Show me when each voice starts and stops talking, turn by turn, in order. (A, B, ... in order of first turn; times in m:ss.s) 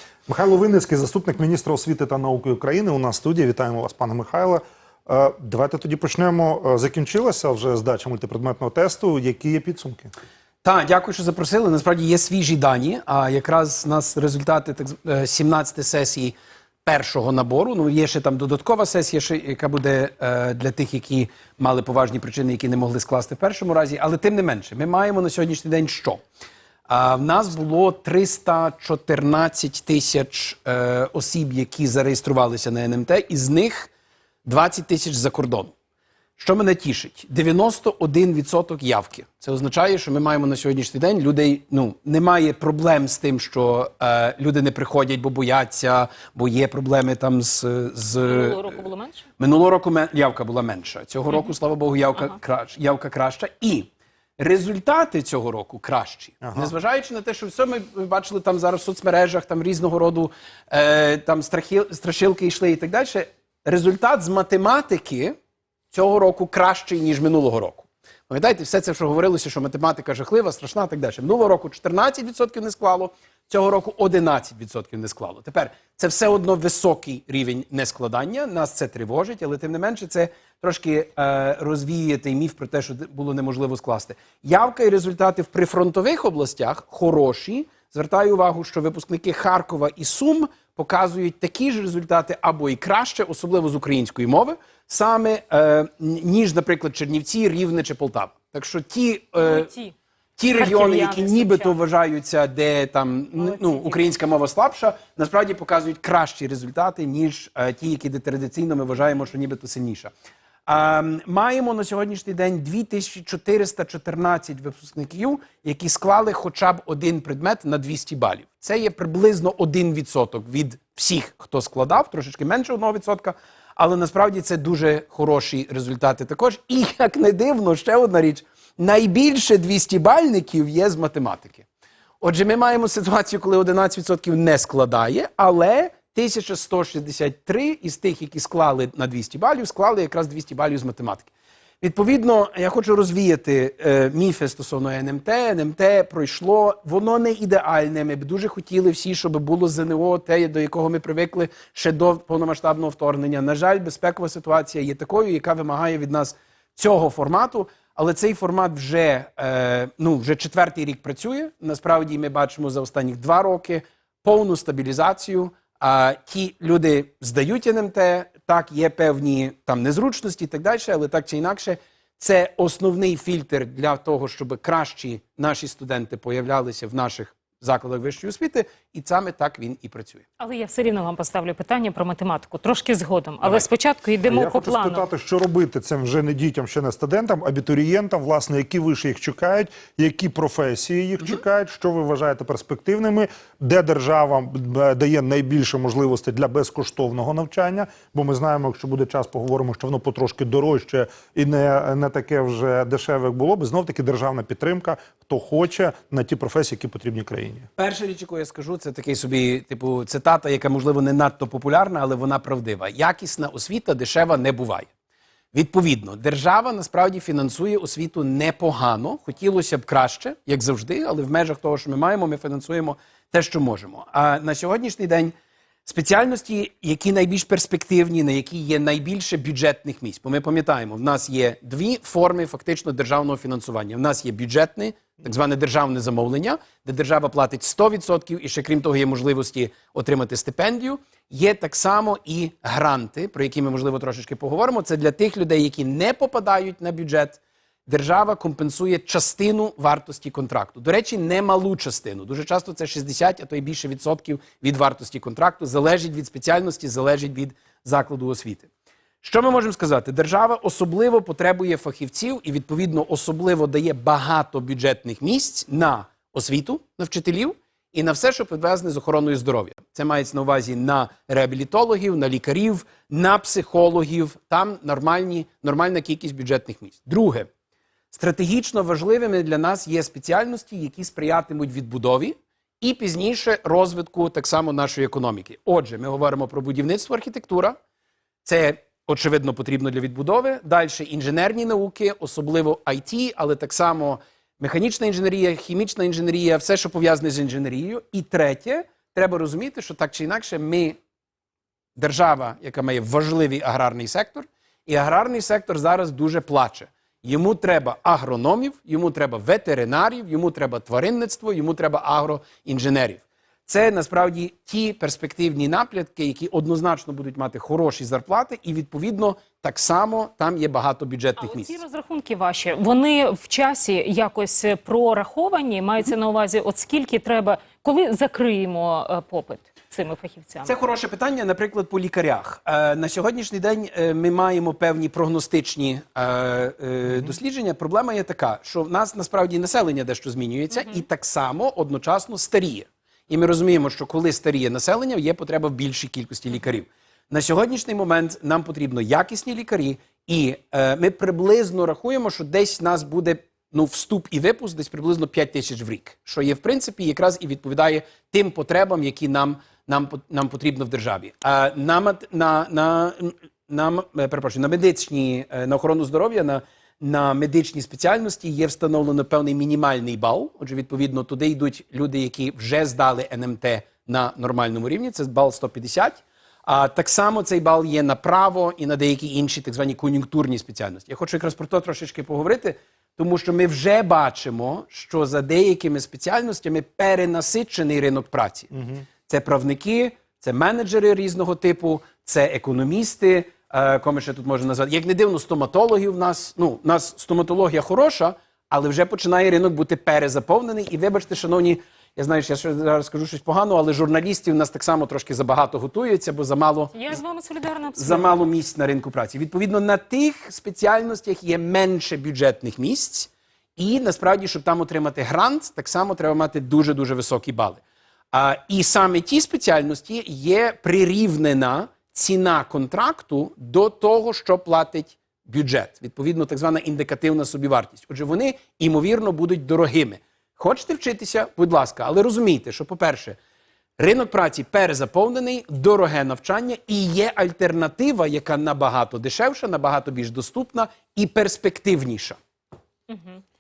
0:00.3-0:10.1 A
0:10.6-0:16.4 B
0:16.9-0:26.2 B
0:26.9-0:33.9 B
0:34.4-0:35.7 B
0:36.4-0:48.8 B
0:48.2-0:49.2 C
0:49.4-1:05.4 B
0:56.4-0:56.7 A
1:05.9-1:39.7 B
1:39.4-1:40.0 C
1:40.4-1:50.1 B
1:40.5-1:41.8 C
1:43.4-1:44.0 C
1:50.7-2:11.7 B
2:12.2-3:00.3 B
3:00.4-3:05.0 C
3:04.3-3:27.7 A
3:27.8-3:34.9 B
3:35.5-3:45.3 B
3:45.9-4:18.7 B
4:19.2-4:37.5 B
4:38.1-4:47.8 B
4:48.4-5:01.0 B
5:02.0-5:21.8 B
5:21.4-5:30.8 C
5:30.6-6:28.7 B
5:40.7-5:41.0 C
6:28.7-6:29.0 A
6:29.3-6:47.2 B
6:46.9-6:48.5 C
6:48.0-7:13.4 B
7:14.0-7:22.4 B
7:23.1-7:23.4 C